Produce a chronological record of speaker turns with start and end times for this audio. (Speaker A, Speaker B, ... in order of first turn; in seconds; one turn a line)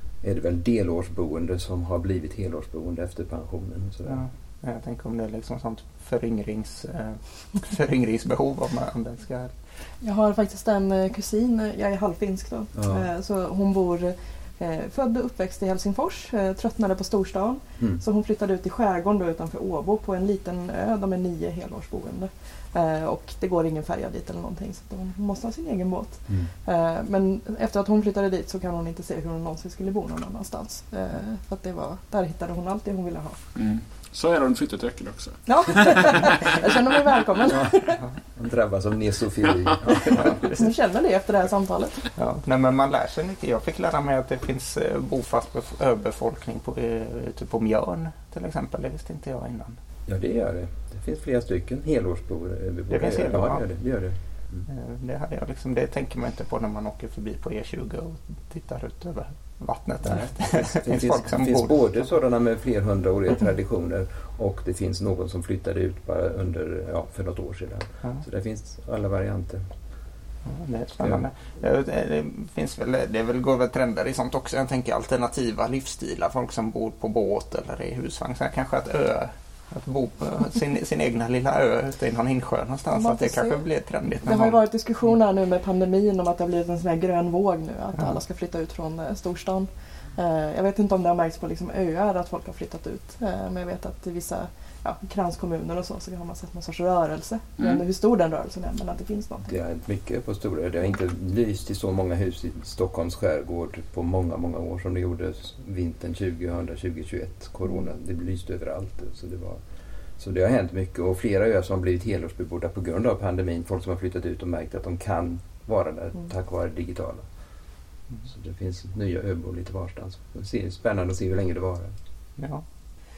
Speaker A: 0.2-4.2
Speaker B: 4.1-9.5
Speaker C: 10.0-33.4
Speaker A: 12.8-13.1
Speaker D: 33.5-36.7
Speaker C: 35.5-38.0
Speaker A: 37.5-40.5
Speaker C: 40.0-42.1
Speaker B: 42.2-49.8
Speaker A: 50.1-54.7
Speaker B: 52.9-53.7
Speaker B: 54.7-61.8
Speaker A: 60.0-69.7
Speaker B: 70.5-84.6
Speaker C: 82.9-83.7
Speaker C: 84.2-99.5
Speaker A: 99.5-109.6
Speaker A: 110.2-117.2
Speaker A: 118.3-121.9
Speaker B: 122.4-122.6